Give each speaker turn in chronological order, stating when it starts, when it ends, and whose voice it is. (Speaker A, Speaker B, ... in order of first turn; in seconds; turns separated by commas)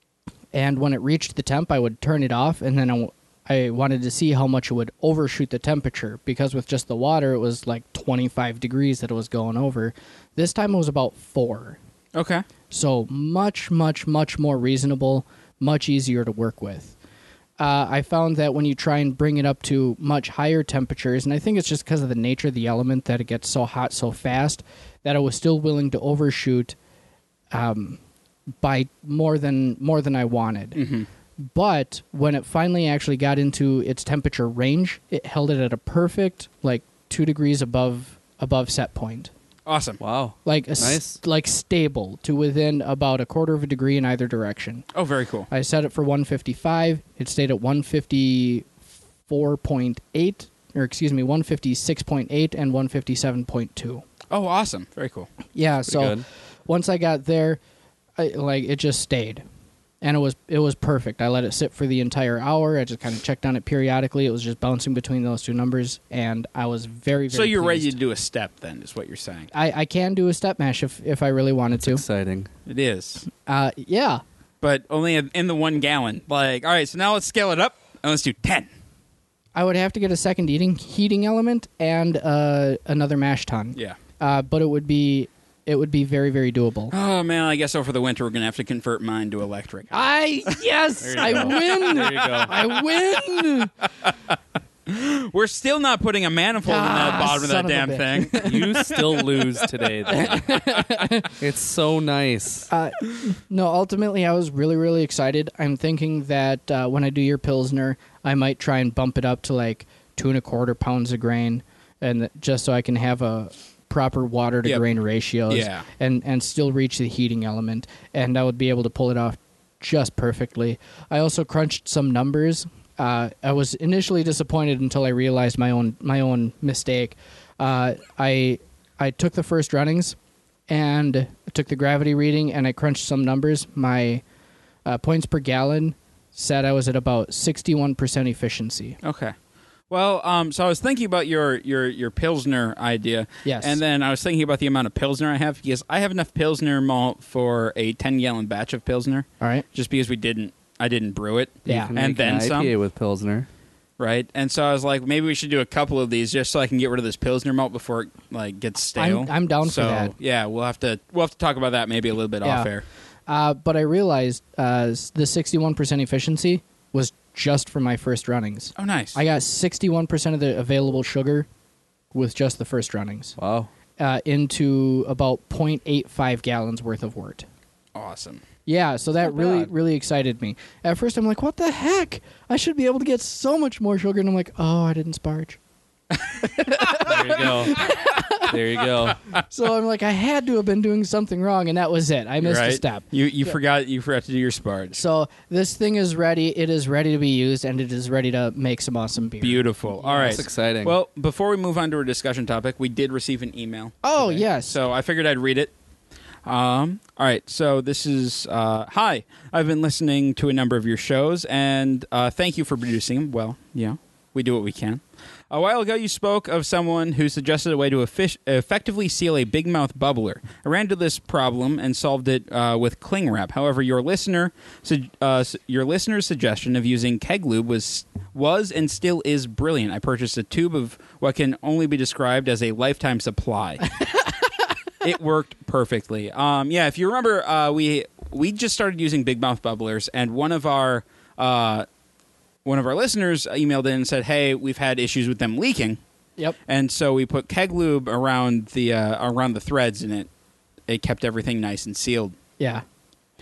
Speaker A: 0.5-11.8, Speaker B: 12.1-12.4, Speaker A: 12.7-16.9, Speaker A: 17.6-26.8, Speaker A: 27.5-28.0, Speaker A: 28.6-30.8, Speaker B: 30.7-31.1, Speaker A: 31.4-39.3, Speaker B: 39.6-40.0, Speaker C: 40.0-41.2, Speaker A: 40.4-44.9, Speaker B: 44.9-45.5, Speaker A: 45.5-48.7, Speaker A: 49.3-54.0, Speaker B: 54.3-55.3, Speaker A: 55.5-57.6, Speaker C: 55.9-56.2, Speaker A: 58.2-59.4, Speaker A: 60.0-68.0, Speaker B: 67.3-69.5, Speaker A: 69.5-72.0, Speaker C: 71.8-72.5, Speaker B: 72.7-73.2, Speaker A: 73.4-74.2, Speaker B: 74.6-78.7, Speaker A: 79.5-86.9, Speaker B: 86.9-92.7, Speaker A: 89.9-93.7, Speaker C: 91.0-92.5, Speaker B: 94.9-99.7, Speaker A: 96.6-99.0, Speaker C: 98.4-100.5, Speaker A: 100.1-101.3, Speaker C: 101.4-102.7, Speaker A: 102.7-130.2, Speaker B: 115.5-115.8, Speaker A: 130.7-134.2, Speaker A: 134.8-139.0, Speaker B: 139.0-139.3, Speaker B: 139.9-152.7, Speaker A: 143.4-143.8, Speaker A: 149.4-149.7, Speaker C: 151.7-153.5, Speaker A: 151.7-151.9, Speaker B: 154.0-162.8, Speaker A: 159.0-160.1, Speaker A: 162.4-162.7, Speaker A: 163.3-171.5, Speaker B: 168.8-169.2, Speaker A: 172.1-173.4, Speaker C: 173.4-173.7, Speaker A: 174.0-177.5, Speaker B: 177.9-178.4, Speaker A: 178.7-185.6, Speaker C: 179.3-179.7, Speaker B: 186.3-187.1, Speaker A: 186.4-188.5, Speaker C: 187.0-189.2, Speaker A: 189.5-193.6, Speaker B: 192.4-195.0, Speaker A: 194.9-200.4, Speaker B: 199.4-205.7, Speaker C: 200.2-200.9, Speaker A: 204.0-204.8, Speaker B: 206.4-233.9, Speaker B: 235.0-241.8, Speaker B: 242.6-246.0, Speaker B: 246.7-250.3, Speaker B: 250.9-252.3, Speaker A: 252.6-252.8